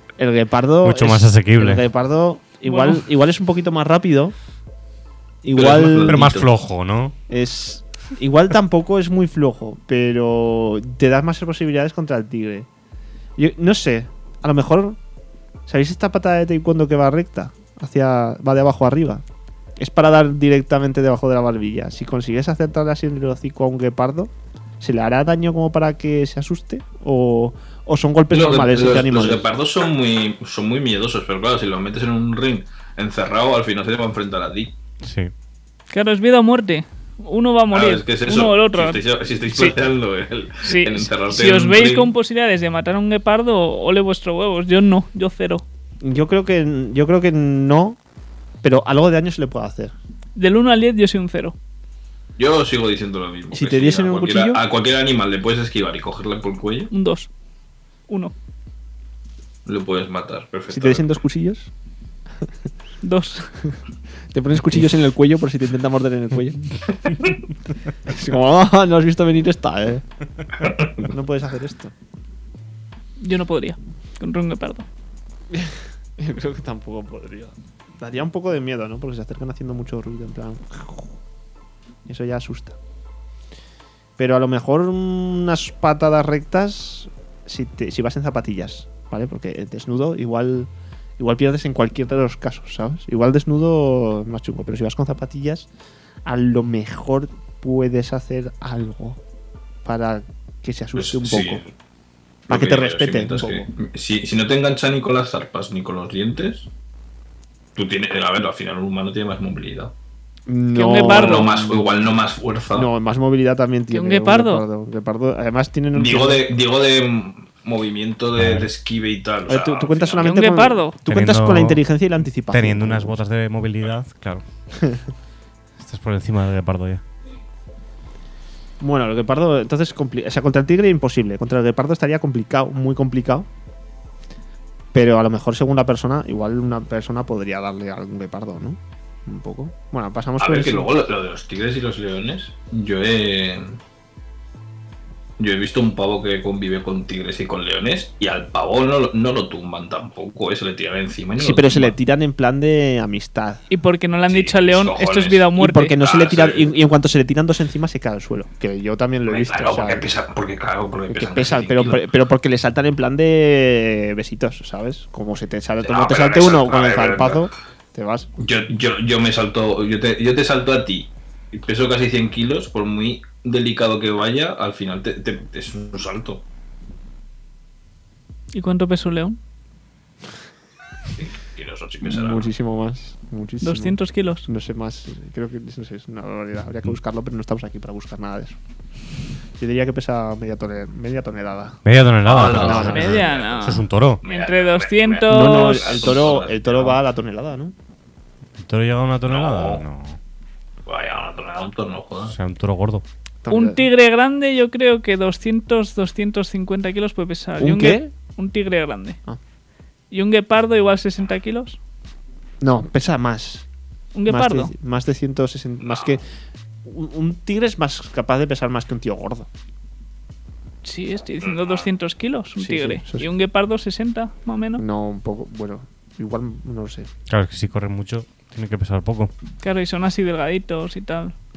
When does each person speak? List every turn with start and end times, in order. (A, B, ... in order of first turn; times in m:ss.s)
0:00.2-0:04.4 A
0:00.8-0:01.8 B
0:02.6-0:03.0 C
0:05.4-0:06.3 A
0:05.6-0:06.5 D
0:06.0-0:07.2 B
0:07.3-0:12.7 A
0:13.4-0:15.0 A
0:15.7-0:19.2 A
0:19.8-0:29.4 A
0:28.3-0:34.8 D
0:35.0-0:35.3 B
0:35.9-0:39.0 C
0:37.7-0:42.1 D
0:40.6-0:45.6 C
0:46.0-0:48.0 A
0:48.6-0:49.9 A
0:50.4-0:51.6 C
0:52.4-0:56.9 D
0:53.5-0:54.6 A
0:56.9-0:57.3 C
0:58.1-0:58.3 C
0:59.7-1:01.2 D
1:00.7-1:01.7 A
1:03.0-1:03.6 C
1:04.3-1:06.8 A
1:08.1-1:10.0 A
1:10.6-1:11.0 D
1:11.0-1:11.9 A
1:13.2-1:14.9 C
1:15.5-1:21.1 A
1:22.1-1:22.8 A
1:24.2-1:35.7 A
1:36.2-1:39.2 A
1:39.8-1:41.6 A
1:41.0-1:41.7 D
1:42.5-1:43.7 A
1:42.5-1:46.7 D
1:47.8-1:49.9 D
1:50.5-1:52.2 A
1:50.7-1:51.5 C
1:51.0-1:52.9 D
1:52.7-1:56.4 A
1:53.9-1:54.6 C
1:55.9-2:00.4 D
1:58.4-1:58.7 B
1:59.5-2:03.2 A
2:00.2-2:01.0 C
2:01.1-2:01.8 B
2:02.5-2:04.4 B
2:05.8-2:07.0 B
2:08.8-2:13.5 A
2:14.9-2:20.9 A
2:20.4-2:23.8 D
2:25.4-2:32.0 D
2:31.4-2:33.6 A
2:33.7-2:36.0 C
2:34.3-2:36.7 D
2:35.6-2:40.1 A
2:39.3-2:42.1 D
2:41.1-2:48.3 A
2:45.8-2:47.5 D
2:48.4-2:56.4 D
2:58.5-2:59.4 C
3:01.2-3:02.5 D
3:02.0-3:08.6 A
3:03.6-3:04.5 C
3:09.6-3:11.8 A
3:11.8-3:14.2 B
3:12.2-3:17.0 D
3:12.5-3:13.2 A
3:12.9-3:16.0 C
3:15.3-3:17.7 A
3:18.6-3:20.2 B
3:19.3-3:19.8 D
3:20.9-3:22.4 D
3:22.3-3:23.0 B
3:23.4-3:23.8 A
3:23.5-3:29.2 C
3:27.6-3:28.1 A
3:30.1-3:31.8 C
3:32.6-3:33.7 A
3:34.2-3:34.7 C
3:34.3-3:36.2 A
3:35.8-3:36.2 D
3:36.8-3:39.5 A
3:40.8-3:44.8 C
3:41.5-3:41.8 D
3:42.6-3:43.3 A
3:44.8-3:47.1 A
3:47.3-3:49.3 B
3:49.6-3:51.4 C